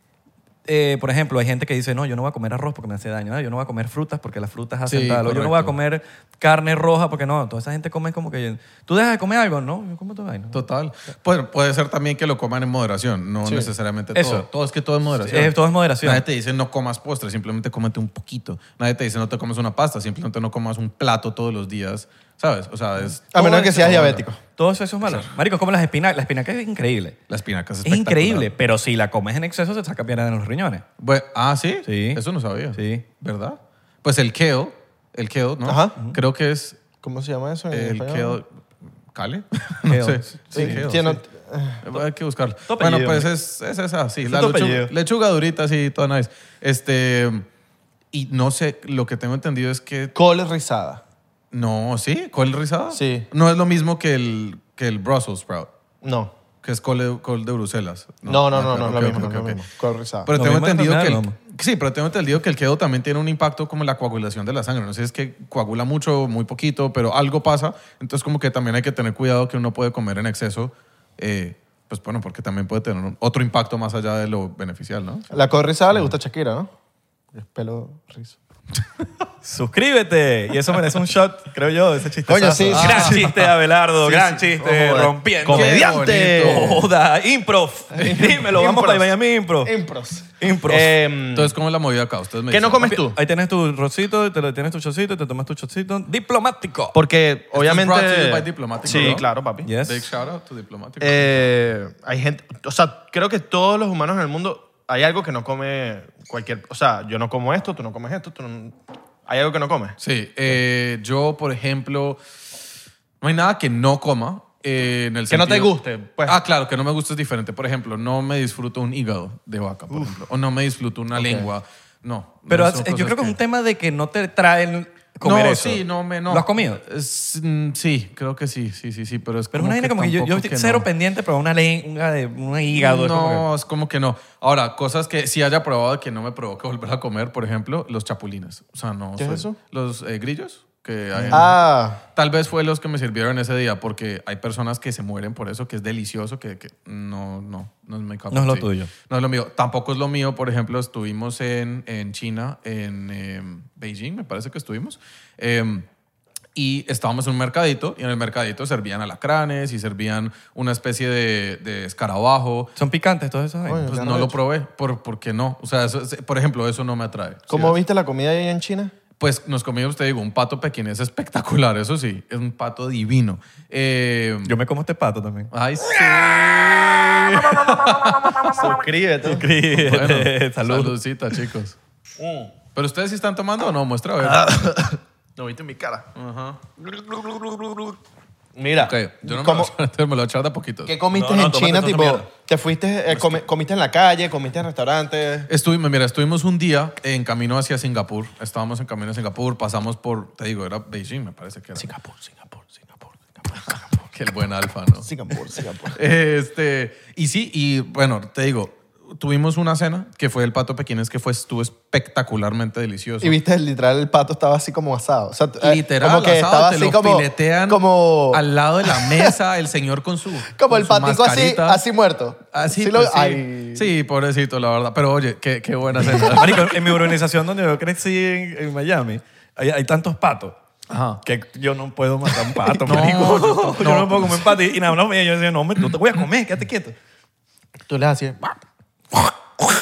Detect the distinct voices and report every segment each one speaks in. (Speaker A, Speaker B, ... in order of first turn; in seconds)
Speaker A: 0.7-10.6, 14.2-14.5, 15.1-16.2, 23.4-27.2, 27.9-30.9, 31.9-32.2, 32.7-33.0, 39.9-40.9, 42.7-43.3, 44.2-44.9, 60.3-61.4, 79.4-89.7, 90.4-91.0, 92.8-97.0, 98.9-100.1, 122.5-126.8, 129.5-133.5, 141.1-141.4, 148.3-148.9, 162.8-163.9, 174.4-178.7, 179.2-181.0, 187.0-187.8, 191.1-192.3, 226.2-230.6, 231.2-236.9
Speaker B: 4.9-5.7, 10.5-24.2, 25.1-25.3, 27.3-28.5, 31.0-36.8, 37.7-38.5, 39.1-41.2, 41.8-47.5, 48.1-50.1, 51.5-55.7, 56.6-59.6, 60.2-75.4, 82.7-83.5, 85.5-86.8, 91.3-92.9, 97.5-99.3, 99.8-101.4, 110.0-112.2, 113.2-115.7, 116.2-123.4, 125.2-130.9, 132.8-155.9, 156.6-162.7, 163.9-167.8, 169.2-174.6, 175.5-178.5, 179.7-181.8, 182.8-184.7, 186.2-186.6, 188.8-190.9, 195.5-201.9, 203.9-205.1, 205.9-213.4, 215.6-221.8, 222.5-226.8, 230.9-231.2, 232.9-234.5
Speaker C: 13.4-13.7, 23.3-24.4, 35.6-36.0, 37.0-38.4, 40.5-41.9, 50.1-51.0, 52.9-53.3, 56.0-56.3, 58.2-60.3, 75.3-76.7, 77.3-78.4, 82.3-83.3, 84.0-86.8, 87.9-89.1, 89.6-91.5, 92.5-93.2, 96.9-99.7, 101.0-110.0, 115.3-116.4, 121.2-121.5, 139.2-139.6, 141.3-142.0, 163.7-164.4, 167.5-168.9, 178.4-179.5, 182.2-182.5, 184.3-186.1, 188.6-189.7, 190.9-195.5, 201.8-204.0, 205.0-206.0, 213.2-219.3, 220.5-223.9, 232.7-233.1, 237.9-238.6